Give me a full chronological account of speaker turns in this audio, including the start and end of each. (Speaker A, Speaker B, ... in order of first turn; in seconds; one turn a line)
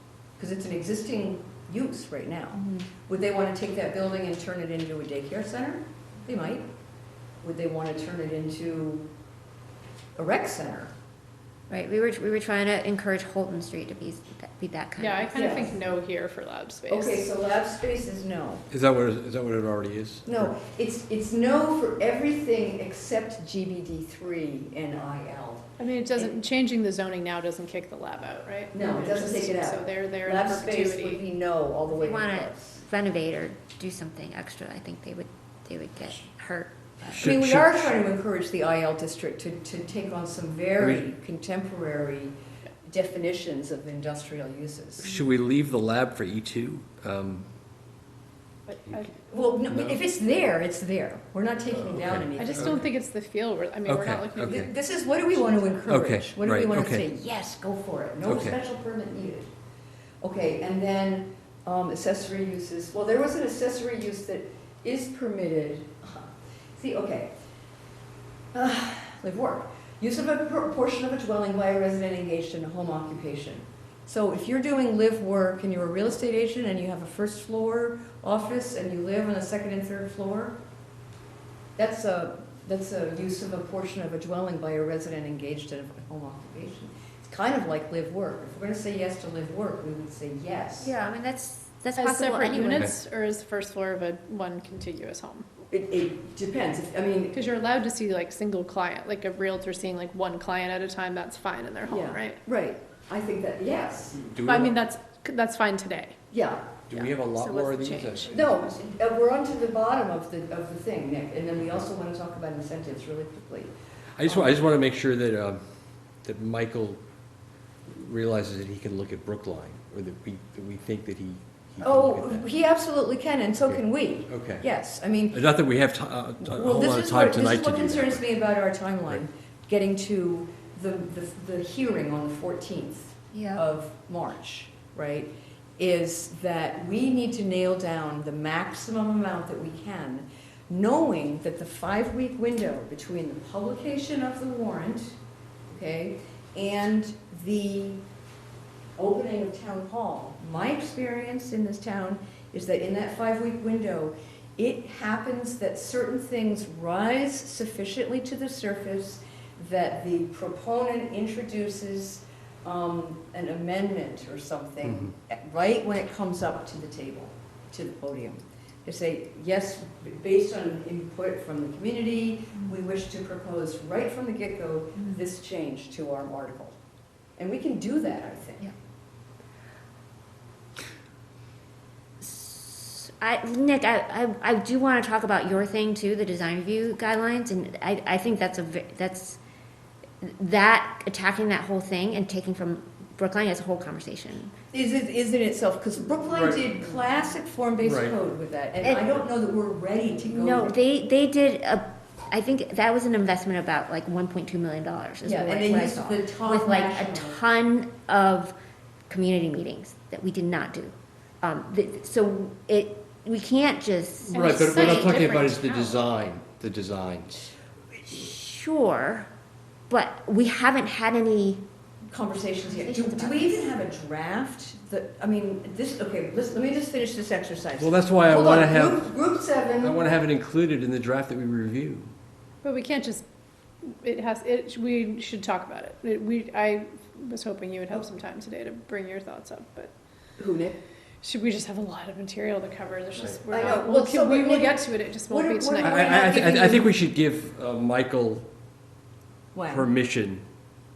Speaker A: 0.4-6.7
Speaker B: 2.5-2.9
Speaker A: 7.4-9.1
Speaker A: 10.2-10.9
Speaker B: 11.7-15.6
Speaker C: 15.0-17.3
Speaker A: 15.3-15.8
Speaker A: 16.9-18.6
Speaker D: 18.7-20.5
Speaker A: 20.3-26.4
Speaker C: 25.8-31.2
Speaker A: 28.7-32.8
Speaker B: 31.9-37.3
Speaker D: 37.1-37.9
Speaker A: 37.2-45.1
Speaker D: 45.0-47.5
Speaker C: 48.7-49.2
Speaker A: 49.3-52.8
Speaker D: 49.7-50.0
Speaker D: 51.8-52.9
Speaker C: 52.4-54.7
Speaker D: 53.9-54.7
Speaker A: 54.5-59.5
Speaker C: 55.3-55.9
Speaker D: 55.9-57.0
Speaker D: 58.3-58.6
Speaker A: 60.2-67.3
Speaker A: 68.5-80.6
Speaker A: 81.8-90.9
Speaker B: 90.8-92.9
Speaker C: 92.0-95.5
Speaker A: 95.7-97.4
Speaker C: 97.3-102.4
Speaker A: 101.9-104.2
Speaker D: 104.2-104.8
Speaker C: 104.5-106.2
Speaker A: 106.3-106.8
Speaker D: 106.9-108.7
Speaker C: 106.9-108.4
Speaker A: 108.3-113.7
Speaker D: 114.2-115.6
Speaker A: 114.2-114.5
Speaker D: 116.2-117.0
Speaker D: 117.9-122.5
Speaker A: 121.8-125.4
Speaker D: 123.6-124.6
Speaker D: 125.3-128.3
Speaker A: 126.5-145.2
Speaker B: 133.3-133.6
Speaker A: 145.7-148.0
Speaker A: 149.0-176.8
Speaker A: 177.4-178.7
Speaker B: 182.2-189.4
Speaker B: 190.2-194.5
Speaker A: 194.7-200.8
Speaker D: 196.3-196.8
Speaker D: 197.8-198.2
Speaker B: 200.3-208.6
Speaker A: 205.2-207.4
Speaker B: 209.1-216.1
Speaker C: 214.3-215.6
Speaker D: 214.3-217.5
Speaker B: 218.1-219.3
Speaker B: 219.9-221.6
Speaker A: 222.1-230.1
Speaker B: 222.6-223.7
Speaker D: 227.8-229.1
Speaker D: 229.8-232.1
Speaker C: 232.6-233.2
Speaker C: 233.9-239.9
Speaker A: 240.4-240.8
Speaker C: 241.2-246.5
Speaker A: 243.5-246.9
Speaker D: 245.8-248.5
Speaker A: 249.5-249.9
Speaker D: 249.7-250.4